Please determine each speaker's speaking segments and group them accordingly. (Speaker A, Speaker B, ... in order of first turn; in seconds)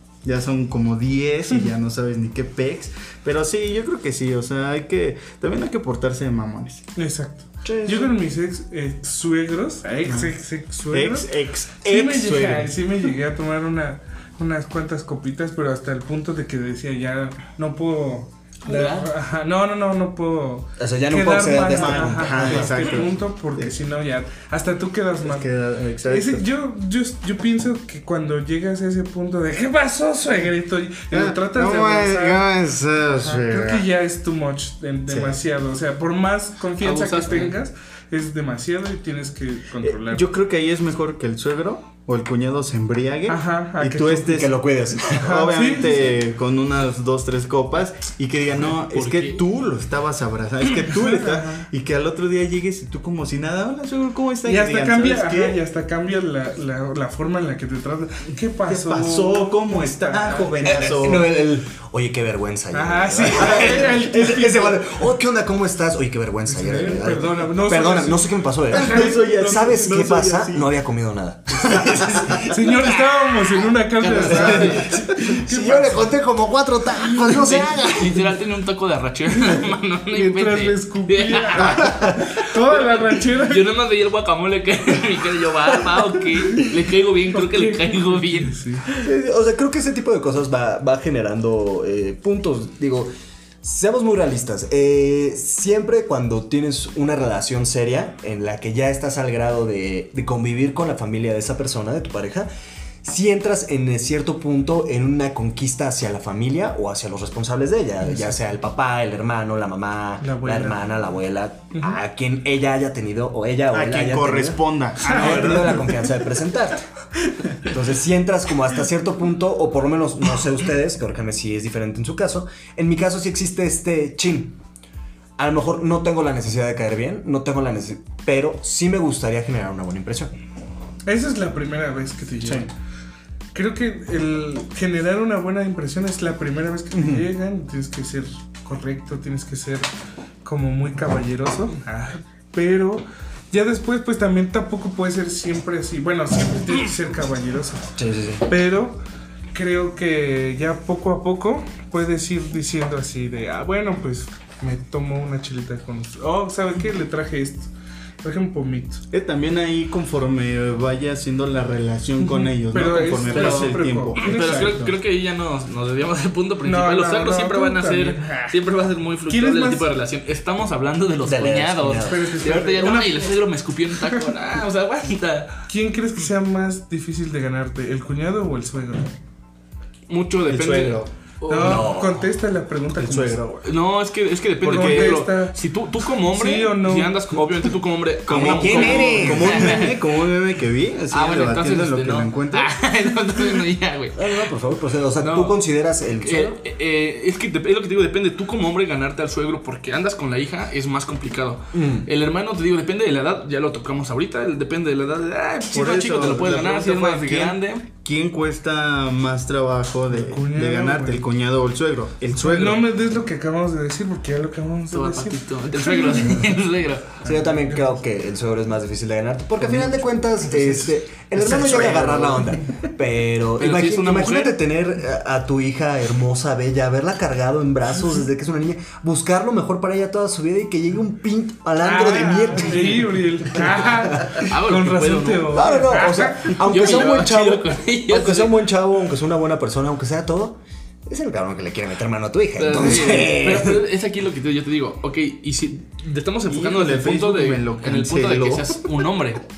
Speaker A: 0.2-6.8, 10.1-10.3, 10.9-12.8, 21.7-23.7, 25.2-26.4, 31.1-33.9, 35.1-35.4, 39.8-55.6, 58.6-61.3, 63.4-63.7, 68.7-70.7, 71.7-72.4, 113.7-115.9, 132.4-132.7, 136.9-137.2, 159.1-164.5, 180.4-181.1, 182.9-183.4, 184.6-185.2, 188.2-192.7, 205.7-212.9, 221.4-222.4, 246.5-248.8
Speaker B: 7.0-11.3, 11.8-25.5, 26.1-32.5, 33.2-40.2, 43.3-44.5, 45.1-46.1, 50.8-51.7, 54.4-60.9, 62.7-64.9, 66.5-70.0, 71.5-76.1, 80.1-83.7, 87.3-88.8, 110.2-110.8, 115.1-115.8, 131.1-132.7, 133.5-139.9, 140.4-147.8, 148.4-149.0, 149.5-157.7, 158.2-159.0, 162.7-164.9, 166.6-168.6, 169.3-169.9, 172.0-173.3, 175.7-179.1, 181.5-183.7, 184.6-185.6, 186.3-187.2, 210.1-211.2, 212.4-216.4, 217.2-217.9, 220.4-220.9, 231.8-236.6
Speaker C: 7.6-8.1, 20.8-22.9, 44.3-45.4, 60.6-73.1, 74.1-78.3, 81.8-82.2, 89.0-93.1, 93.6-102.5, 103.0-116.8, 117.6-124.6, 125.4-130.3, 148.0-148.4, 171.2-172.3, 181.6-182.3, 188.3-189.9, 194.1-196.6, 201.7-202.1, 217.2-234.5, 235.5-243.8
Speaker D: 36.8-37.6, 48.8-49.4, 74.0-74.9, 77.2-89.1, 163.3-175.6, 180.1-182.0, 183.6-190.0, 191.1-194.5, 195.2-195.6, 196.2-207.8, 214.9-217.2, 223.6-224.6, 234.4-235.7, 236.5-238.7, 242.6-249.4